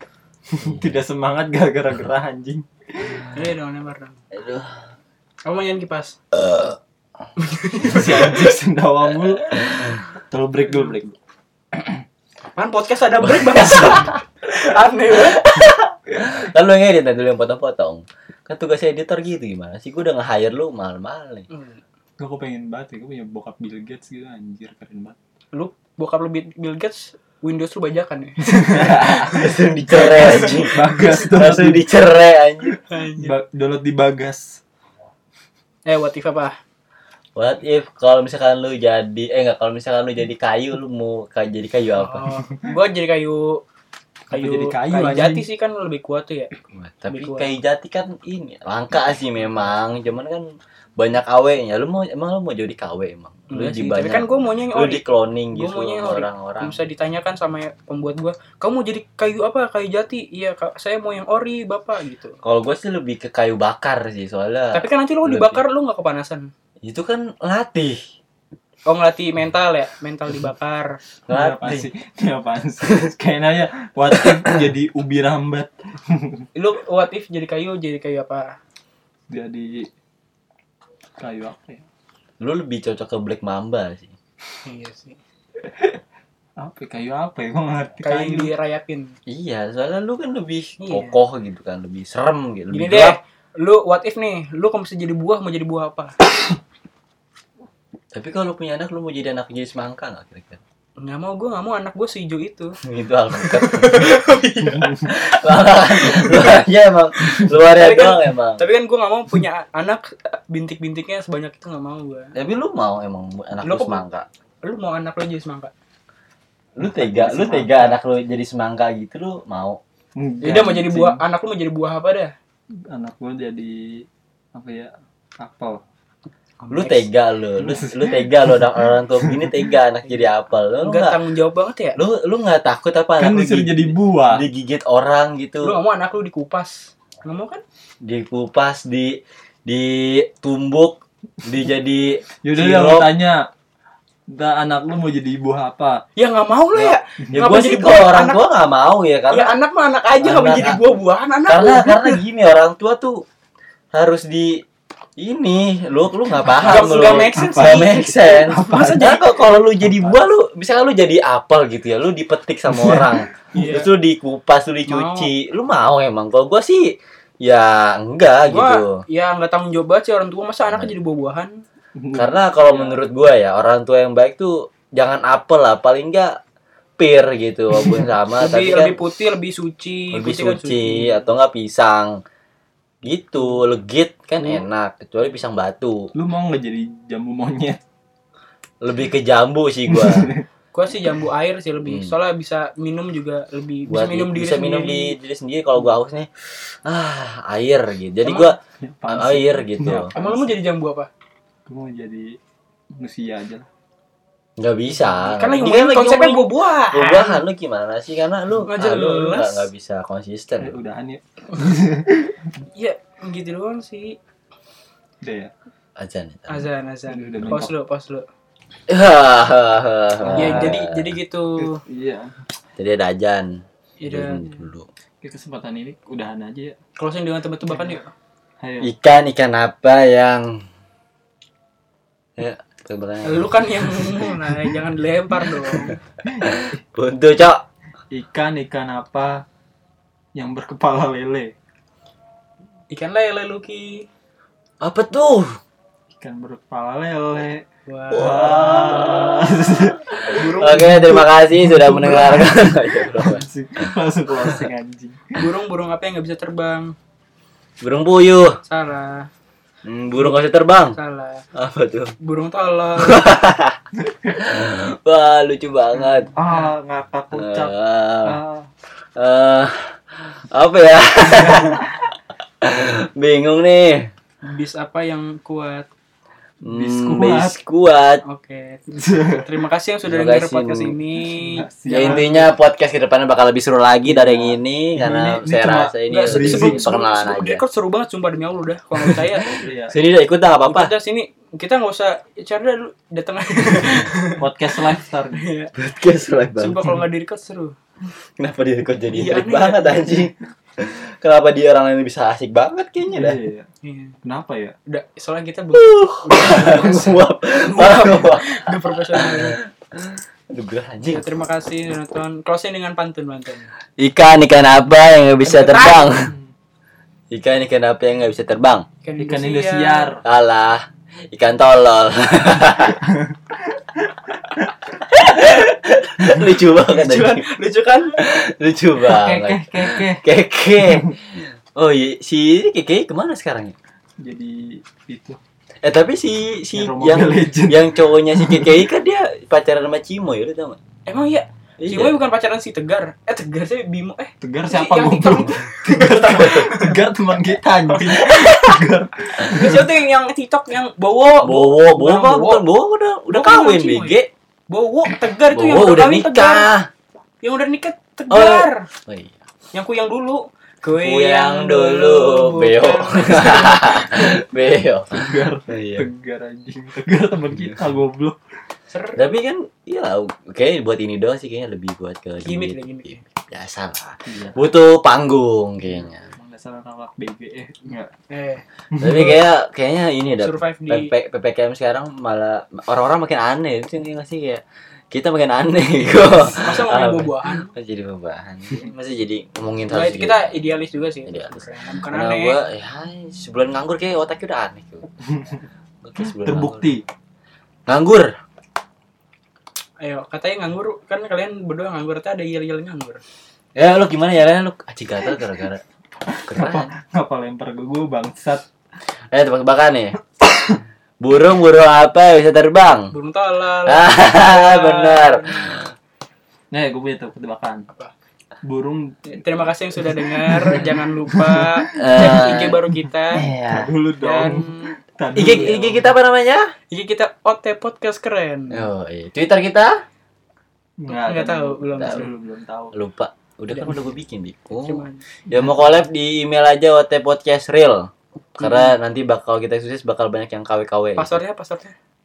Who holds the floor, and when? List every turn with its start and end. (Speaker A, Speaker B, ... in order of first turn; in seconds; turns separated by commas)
Speaker A: 0.5-3.3, Speaker B: 0.6-1.0, Speaker C: 3.3-4.2, Speaker B: 4.3-4.9, Speaker C: 5.5-6.2, Speaker B: 6.3-6.8, Speaker C: 7.4-8.5, Speaker A: 7.8-11.2, Speaker C: 12.6-15.7, Speaker B: 13.3-14.1, Speaker B: 15.1-21.5, Speaker C: 21.5-21.8, Speaker A: 22.2-25.2, Speaker C: 25.5-29.3, Speaker A: 28.4-31.9, Speaker B: 29.1-32.8, Speaker C: 29.9-31.2, Speaker C: 32.8-33.3, Speaker A: 33.2-34.6, Speaker C: 35.9-36.6, Speaker B: 37.4-42.3, Speaker C: 42.0-43.6, Speaker A: 44.3-45.5, Speaker C: 44.3-46.5, Speaker B: 46.7-56.8, Speaker C: 47.1-47.5, Speaker C: 53.5-62.4, Speaker B: 62.4-65.6, Speaker C: 64.7-66.5, Speaker B: 66.8-68.0, Speaker C: 68.9-71.0, Speaker B: 71.3-71.9, Speaker A: 71.3-76.5, Speaker C: 76.5-78.6, Speaker A: 79.3-79.9, Speaker A: 81.2-81.9, Speaker B: 82.4-84.1, Speaker C: 84.6-85.2, Speaker A: 85.7-86.0, Speaker A: 86.6-88.5, Speaker C: 88.0-89.1, Speaker B: 89.3-93.2, Speaker C: 90.8-91.2, Speaker C: 92.7-96.2, Speaker B: 98.1-100.6, Speaker C: 101.0-102.8, Speaker B: 102.8-104.2, Speaker C: 103.4-105.1, Speaker A: 104.7-105.1, Speaker B: 105.1-108.6, Speaker C: 106.1-106.4, Speaker C: 107.4-112.3, Speaker B: 112.3-114.3, Speaker C: 113.6-114.0, Speaker C: 114.6-115.7, Speaker B: 116.8-119.8, Speaker A: 116.8-118.0, Speaker A: 120.2-121.2, Speaker C: 120.4-122.3, Speaker A: 122.8-125.8, Speaker C: 126.6-127.1, Speaker B: 126.7-131.2, Speaker A: 127.6-129.7, Speaker C: 130.8-132.0, Speaker B: 132.0-135.8, Speaker A: 133.2-134.4, Speaker C: 135.6-137.6, Speaker B: 138.0-143.2, Speaker A: 142.4-143.5, Speaker A: 144.3-146.0, Speaker C: 146.2-148.4, Speaker B: 146.7-149.6, Speaker C: 149.3-152.2, Speaker B: 150.2-150.8, Speaker B: 151.5-153.2, Speaker B: 153.9-154.6, Speaker B: 155.2-169.0, Speaker A: 156.5-159.2, Speaker C: 156.6-159.3, Speaker A: 159.8-160.1, Speaker A: 162.7-163.2, Speaker C: 163.5-163.9, Speaker C: 164.9-165.3, Speaker C: 168.4-171.6, Speaker A: 171.9-173.0, Speaker B: 172.2-176.4, Speaker B: 177.0-179.0, Speaker C: 178.4-181.2, Speaker B: 180.1-182.2, Speaker B: 183.0-186.1, Speaker A: 186.2-187.8, Speaker B: 188.8-190.3, Speaker A: 189.9-190.4, Speaker C: 190.7-195.2, Speaker B: 191.8-192.2, Speaker B: 193.9-198.6, Speaker C: 198.2-198.5, Speaker A: 198.8-200.5, Speaker B: 199.1-200.1, Speaker C: 200.1-201.1, Speaker A: 201.7-202.4, Speaker A: 203.0-203.7, Speaker B: 204.6-210.8, Speaker C: 205.2-207.4, Speaker C: 208.7-209.7, Speaker A: 210.6-212.5, Speaker C: 212.8-214.2, Speaker A: 215.2-215.5, Speaker B: 216.0-216.7, Speaker C: 216.5-218.3, Speaker A: 217.1-217.7, Speaker B: 218.9-221.1, Speaker A: 220.2-220.8, Speaker C: 220.3-221.8, Speaker A: 221.6-222.3, Speaker B: 222.8-224.9, Speaker C: 224.0-224.5, Speaker A: 225.2-226.8, Speaker C: 227.0-228.1, Speaker A: 228.6-228.9, Speaker B: 228.8-230.7, Speaker B: 232.4-234.2, Speaker C: 233.2-236.0, Speaker B: 235.9-237.6, Speaker A: 236.3-236.6, Speaker A: 238.1-239.4, Speaker A: 240.3-241.5, Speaker C: 242.9-244.1, Speaker B: 244.8-245.6, Speaker A: 246.2-255.4, Speaker C: 247.9-248.7, Speaker B: 248.1-254.7, Speaker C: 250.3-251.3, Speaker C: 255.3-256.9, Speaker B: 257.8-258.6, Speaker C: 258.6-259.3, Speaker B: 259.9-261.0, Speaker C: 260.9-261.4, Speaker B: 261.6-262.1, Speaker C: 262.2-263.3, Speaker B: 263.0-263.8, Speaker A: 264.0-264.4, Speaker B: 264.4-266.3, Speaker A: 266.4-268.7, Speaker B: 267.3-268.4, Speaker B: 269.2-272.0, Speaker A: 271.3-271.8, Speaker B: 272.6-274.1, Speaker C: 274.4-275.9, Speaker B: 276.6-278.2, Speaker A: 276.6-277.6, Speaker C: 278.2-278.8, Speaker A: 278.9-279.5, Speaker C: 279.4-282.5, Speaker B: 280.1-281.0, Speaker A: 281.3-282.4, Speaker B: 281.9-287.6, Speaker A: 284.1-286.9, Speaker C: 286.1-289.5, Speaker A: 289.1-289.9, Speaker B: 289.9-290.9, Speaker C: 290.6-294.4, Speaker A: 294.2-295.5, Speaker C: 295.3-295.7, Speaker B: 295.8-296.8, Speaker C: 296.6-297.8, Speaker B: 298.4-303.4, Speaker C: 299.1-300.1, Speaker A: 303.1-303.7, Speaker C: 303.8-304.2, Speaker A: 304.2-304.8, Speaker C: 304.9-309.6, Speaker B: 305.7-311.3, Speaker C: 311.1-313.7, Speaker B: 314.0-316.3, Speaker C: 315.5-316.2, Speaker A: 315.5-316.4, Speaker B: 317.3-318.9, Speaker C: 319.0-320.2, Speaker A: 319.2-320.2, Speaker B: 320.2-323.0, Speaker A: 323.1-324.7, Speaker B: 324.9-327.5, Speaker C: 326.8-328.2, Speaker B: 328.1-333.8, Speaker A: 329.0-330.2, Speaker A: 330.8-331.1, Speaker A: 334.2-335.4, Speaker B: 335.8-340.8, Speaker A: 336.7-338.8, Speaker C: 341.1-347.0, Speaker B: 341.8-342.2, Speaker A: 344.4-349.9, Speaker B: 346.3-346.6, Speaker C: 347.9-348.8, Speaker C: 349.4-352.7, Speaker B: 351.4-354.3, Speaker C: 353.3-354.2, Speaker C: 354.7-356.7, Speaker B: 355.5-356.9, Speaker C: 357.4-358.9, Speaker B: 358.3-359.4, Speaker C: 359.7-364.3, Speaker B: 360.9-366.1, Speaker A: 365.1-368.4, Speaker C: 368.9-369.3, Speaker B: 369.2-376.3, Speaker C: 372.4-373.2, Speaker A: 374.3-374.6, Speaker A: 375.9-378.1, Speaker C: 378.3-378.6, Speaker A: 378.9-379.4, Speaker B: 379.0-390.6, Speaker C: 380.4-381.1, Speaker C: 386.4-387.7, Speaker C: 389.9-392.6, Speaker B: 391.3-395.1, Speaker A: 395.2-395.6, Speaker B: 396.0-396.9, Speaker A: 396.2-397.0, Speaker B: 397.9-398.3, Speaker C: 400.0-403.2, Speaker B: 403.8-405.8, Speaker A: 406.3-408.6, Speaker B: 406.5-406.9, Speaker B: 409.3-410.2, Speaker B: 411.2-413.1, Speaker C: 413.1-415.9, Speaker B: 413.9-415.9, Speaker A: 416.7-417.9, Speaker A: 418.6-422.5, Speaker C: 419.3-423.5, Speaker B: 421.9-422.8, Speaker B: 423.3-423.9, Speaker A: 423.6-426.1, Speaker C: 424.2-425.7, Speaker B: 425.4-426.7, Speaker C: 426.9-428.9, Speaker B: 428.7-430.0, Speaker A: 431.0-432.9, Speaker C: 431.1-432.3, Speaker B: 432.0-432.3, Speaker B: 432.9-441.4, Speaker C: 434.8-435.2, Speaker C: 438.6-438.9, Speaker C: 441.2-441.9